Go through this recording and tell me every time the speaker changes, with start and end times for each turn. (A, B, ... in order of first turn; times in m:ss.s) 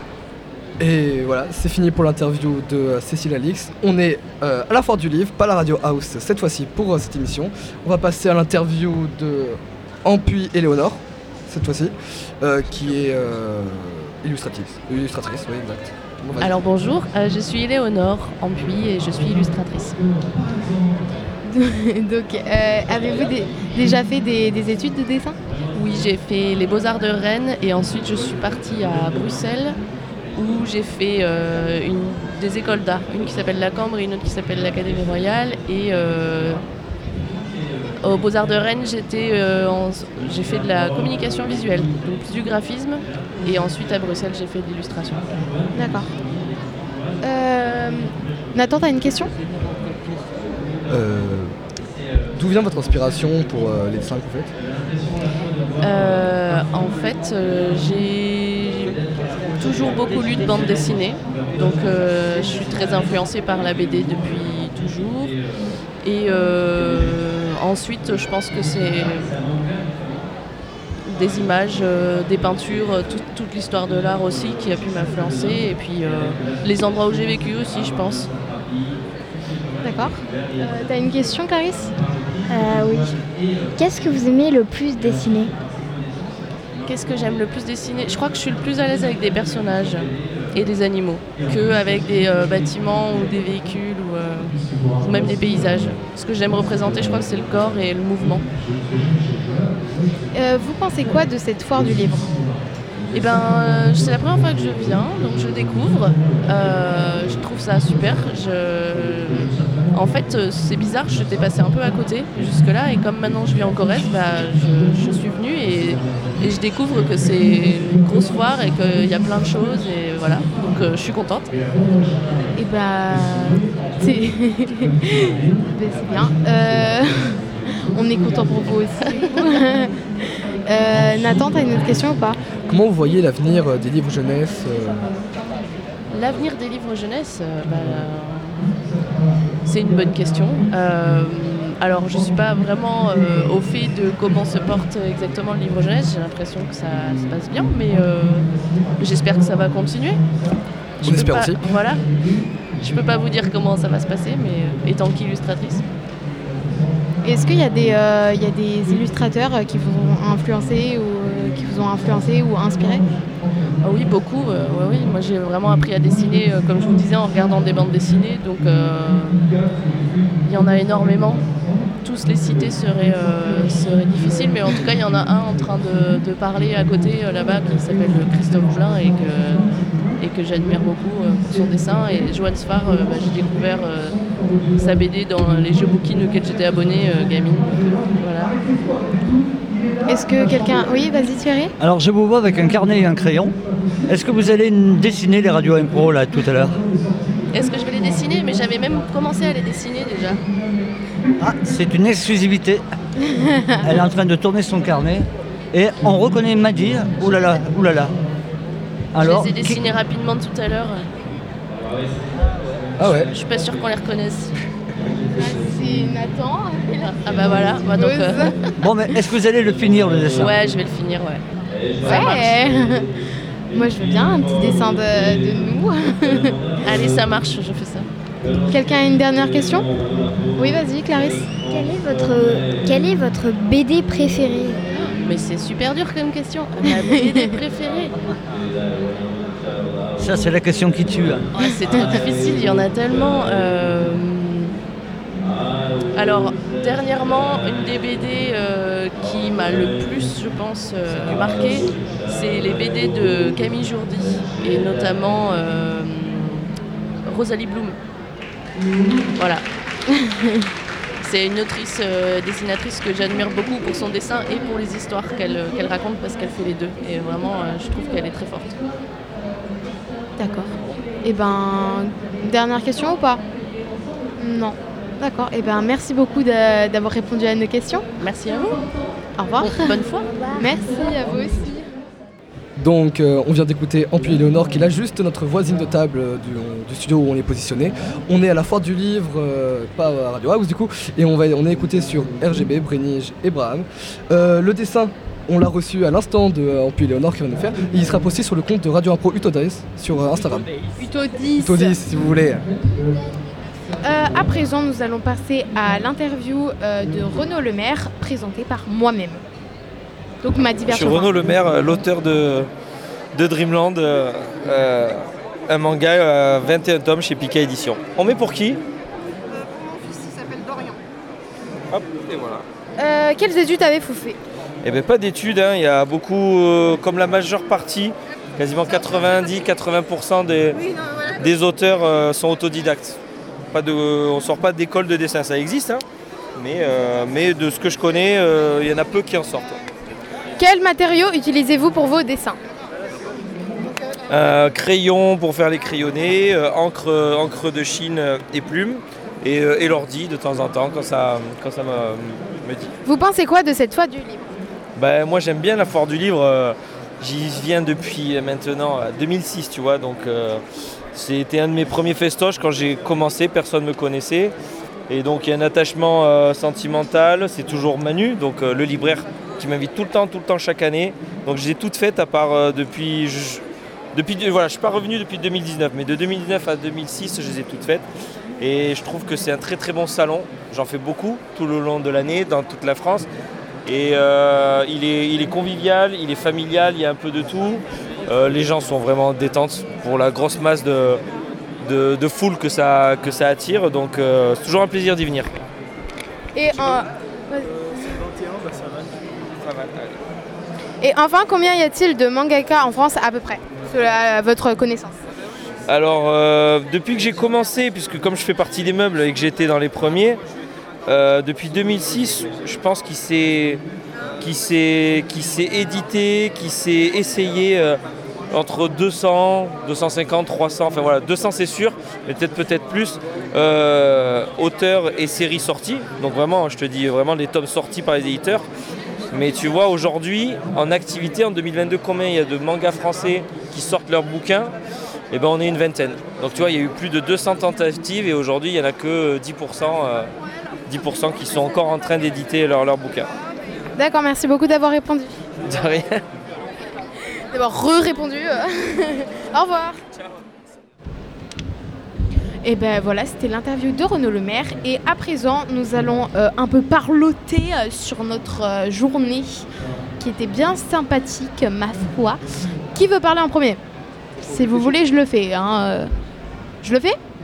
0:00.8-0:16.6 A
0:16.4-0:20.0 B
0:21.5-0:25.4 C
0:25.7-0:29.8 B
0:30.4-0:36.6 B
0:38.0-0:45.4 B
0:45.7-0:46.1 C
0:47.2-0:49.3 C
0:50.9-0:51.6 A
0:52.3-0:54.5 A
0:55.8-0:59.0 B
0:59.6-1:05.4 B
1:06.0-1:09.4 B
1:11.1-1:18.3 B
1:19.8-1:22.0 C
1:22.5-1:23.2 D
1:23.8-1:25.5 D
1:26.8-1:38.5 B
1:40.3-1:42.4 C
1:43.1-2:01.5 B
2:02.6-2:12.4 C
2:12.7-2:15.1 A
2:16.1-2:18.7 B
2:19.6-2:30.2 B
2:31.0-2:32.1 B
2:31.0-2:31.6 A
2:32.8-2:35.8 B
2:37.2-2:43.1 C
2:43.8-2:49.6 B
2:50.4-2:51.5 B
2:52.0-3:04.2 B
3:04.8-3:08.6 B
3:10.1-3:11.7 C
3:11.8-3:13.6 E
3:14.1-3:16.8 E
3:17.5-3:20.4 B
3:21.4-3:22.8 E
3:23.3-3:23.7 C
3:23.8-3:28.1 E
3:29.1-3:29.8 E
3:29.2-3:31.1 B
3:33.0-3:33.3 A
3:33.1-3:34.6 B
3:35.4-3:38.7 C
3:37.0-3:38.5 B
3:38.8-3:40.5 E
3:40.4-3:41.5 B
3:42.0-3:42.5 B
3:42.0-3:43.1 C
3:43.7-3:46.6 C
3:46.8-3:48.1 B
3:48.7-3:49.9 C
3:50.6-3:51.5 C
3:51.7-3:54.8 D
3:54.9-3:58.1 B
3:56.9-3:57.5 C
4:00.2-4:01.4 E
4:01.5-4:04.7 B
4:06.1-4:16.7 B
4:17.3-4:18.0 B
4:19.4-4:19.6 B
4:20.1-4:20.7 C
4:21.2-4:28.8 B
4:30.4-4:33.4 C
4:34.4-4:38.0 C
4:38.2-4:38.9 B
4:39.4-4:39.9 C
4:39.6-4:40.3 B
4:40.3-4:41.1 D
4:40.6-4:41.8 C
4:42.8-5:00.7 A
5:01.0-5:02.0 C
5:01.6-5:02.6 A
5:04.0-5:09.4 C
5:10.4-5:11.3 C
5:10.8-5:12.7 F
5:13.4-5:18.8 F
5:21.9-5:22.6 F
5:23.0-5:24.4 C
5:24.8-5:30.8 F
5:31.4-5:33.2 F
5:33.7-5:36.0 F
5:36.6-5:39.8 F
5:40.6-5:42.6 C
5:44.3-5:52.9 F
5:53.0-5:54.4 C
5:55.0-6:00.6 F
6:01.1-6:04.5 F
6:05.1-6:13.6 F
6:14.1-6:18.0 F
6:18.6-6:23.3 F
6:23.9-6:31.2 F
6:31.8-6:35.5 F
6:36.6-6:38.3 C
6:39.6-6:40.2 F
6:41.0-6:45.2 C
6:45.9-6:50.4 F
6:51.1-6:53.8 F
6:54.4-6:58.0 F
6:58.5-7:08.6 F
7:09.3-7:14.7 F
7:15.3-7:20.3 F
7:20.9-7:23.3 F
7:24.0-7:25.4 C
7:25.7-7:26.2 F
7:27.5-7:30.0 C
7:32.6-7:39.7 C
7:40.2-7:42.4 C
7:43.0-7:43.8 C
7:44.4-7:46.1 C
7:46.8-7:47.2 C